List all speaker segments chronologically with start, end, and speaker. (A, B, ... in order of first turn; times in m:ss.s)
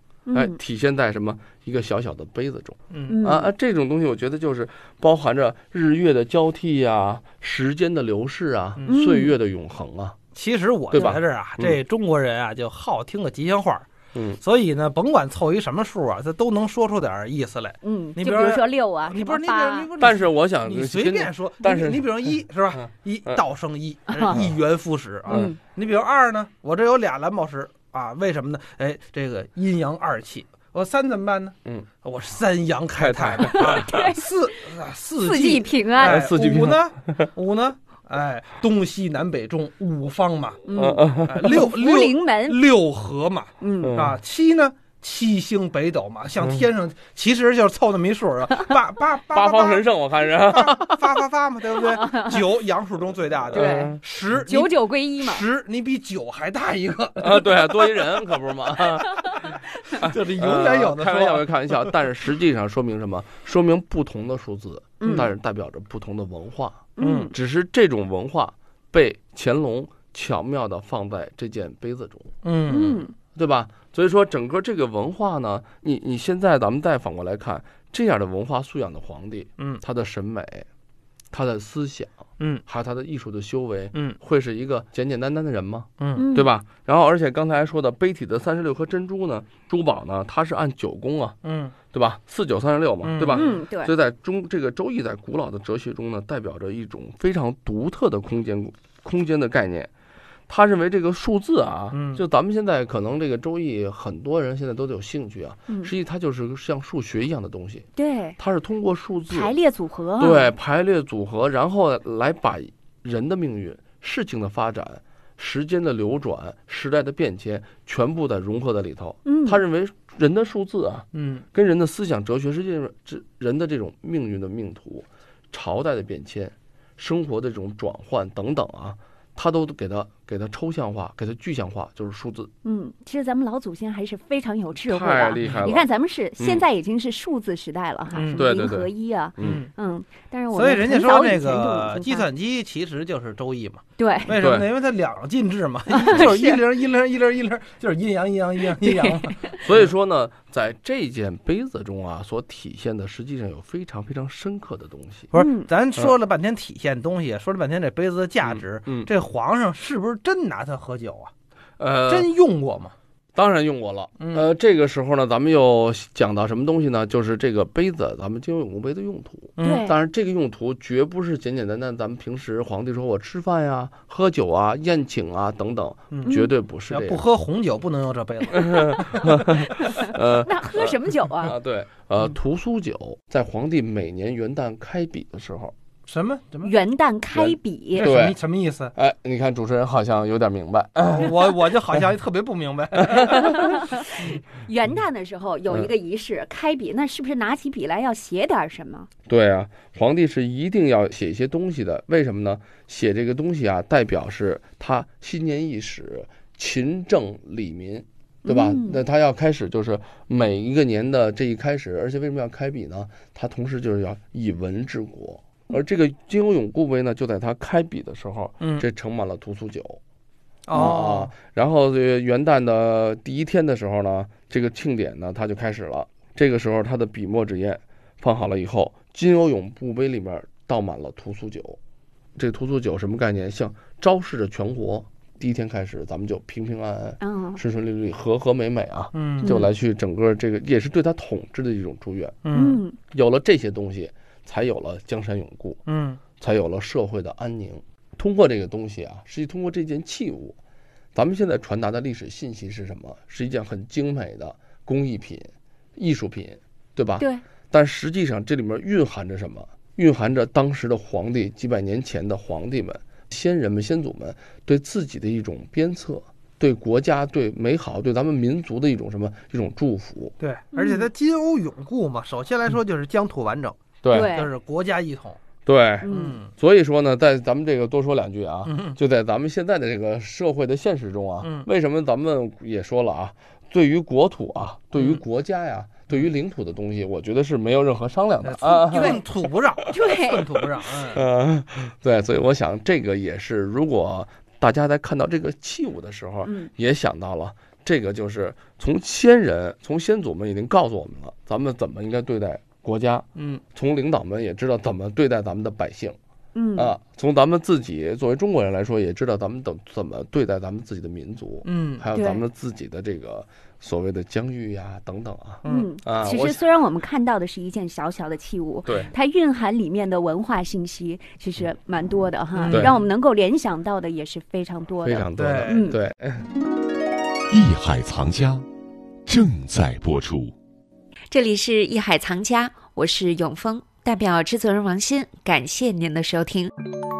0:00.3-0:00.6 A
0:00.3-0:10.2 B
0:02.9-0:03.2 C
0:03.1-0:03.5 A
0:08.9-0:09.4 A
0:10.3-0:13.9 C
0:10.9-0:11.8 B
0:14.1-0:14.4 B
0:14.4-0:40.6 C
0:17.8-0:19.9 A
0:20.0-0:22.1 B
0:24.1-0:24.4 A
0:25.3-0:25.6 A
0:32.9-0:34.0 B
0:33.5-0:34.2 A
0:35.2-0:36.2 A
0:36.0-0:37.3 B
0:40.7-0:42.6 A
0:40.7-0:41.5 B
0:41.2-0:57.9 C
0:43.6-0:43.9 A
0:43.8-0:44.2 B
0:49.3-0:51.0 B
0:53.5-0:54.0 B
0:53.5-0:55.4 A
0:57.2-0:59.4 B
0:59.4-1:01.8 C
1:00.0-1:12.3 B
1:05.0-1:05.3 A
1:07.0-1:07.3 A
1:07.0-1:07.3 C
1:12.4-1:13.1 C
1:12.7-1:13.1 A
1:13.3-1:20.7 B
1:21.3-1:31.4 B
1:23.9-1:24.2 C
1:26.0-1:26.2 C
1:26.1-1:26.5 A
1:31.4-1:31.8 C
1:31.9-1:39.9 B
1:33.0-1:33.5 C
1:33.2-1:33.9 A
1:40.5-1:49.6 B
1:41.9-1:42.2 C
1:48.0-1:48.4 A
1:49.3-1:50.5 A
1:50.2-2:12.5 B
1:59.2-1:59.6 A
2:01.1-2:01.4 C
2:12.6-2:22.2 A
2:14.9-2:16.6 B
2:18.1-2:18.5 C
2:18.4-2:19.6 B
2:19.4-2:19.7 C
2:20.5-2:29.8 C
2:24.0-2:24.3 A
2:24.3-2:24.7 B
2:25.9-2:26.6 A
2:26.1-2:26.4 B
2:28.8-2:29.6 A
2:29.6-2:35.3 B
2:35.3-2:41.3 C
2:35.4-2:35.7 A
2:38.4-2:39.1 B
2:41.8-2:42.3 B
2:42.1-2:42.9 C
2:43.3-2:57.2 B
2:44.2-2:44.5 C
2:49.6-2:49.8 C
2:49.6-2:50.0 A
2:56.1-2:56.4 C
2:56.2-2:56.5 A
2:56.9-2:59.4 C
2:59.0-3:05.7 B
3:00.4-3:01.5 A
3:06.1-3:06.7 C
3:06.6-3:08.0 A
3:07.3-3:08.4 B
3:07.9-3:08.9 C
3:08.9-3:11.5 B
3:11.0-3:14.4 C
3:13.6-3:19.1 A
3:15.7-3:15.9 B
3:19.3-3:40.0 B
3:28.4-3:29.0 A
3:38.6-3:38.8 C
3:40.7-3:41.3 C
3:40.7-3:51.8 B
3:52.4-4:02.4 B
3:57.2-3:57.6 A
3:59.1-3:59.5 C
3:59.4-3:59.7 A
4:02.4-4:02.8 C
4:02.5-4:03.0 A
4:03.1-4:05.8 B
4:05.8-4:06.2 C
4:06.4-4:10.6 B
4:11.1-4:30.3 B
4:17.2-4:17.4 A
4:30.4-4:35.4 C
4:30.7-4:31.1 A
4:34.0-4:34.3 B
4:34.1-4:34.5 A
4:35.6-4:49.2 B
4:36.0-4:36.4 A
4:36.1-4:36.5 C
4:38.7-4:39.0 C
4:41.4-4:41.7 C
4:45.0-4:45.2 C
4:48.4-4:51.2 C
4:48.9-4:49.2 A
4:49.9-4:50.4 A
4:51.1-5:06.2 B
4:56.4-4:56.7 A
5:03.4-5:03.6 C
5:06.5-5:06.9 A
5:06.7-5:16.6 B
5:11.6-5:12.0 C
5:12.1-5:12.4 A
5:15.6-5:15.9 C
5:15.7-5:26.0 A
5:18.8-5:19.1 B
5:22.6-5:23.0 C
5:22.7-5:23.0 B
5:25.0-5:26.4 B
5:25.4-5:25.9 C
5:27.5-5:28.6 D
5:29.2-5:30.5 D
5:31.3-5:36.6 E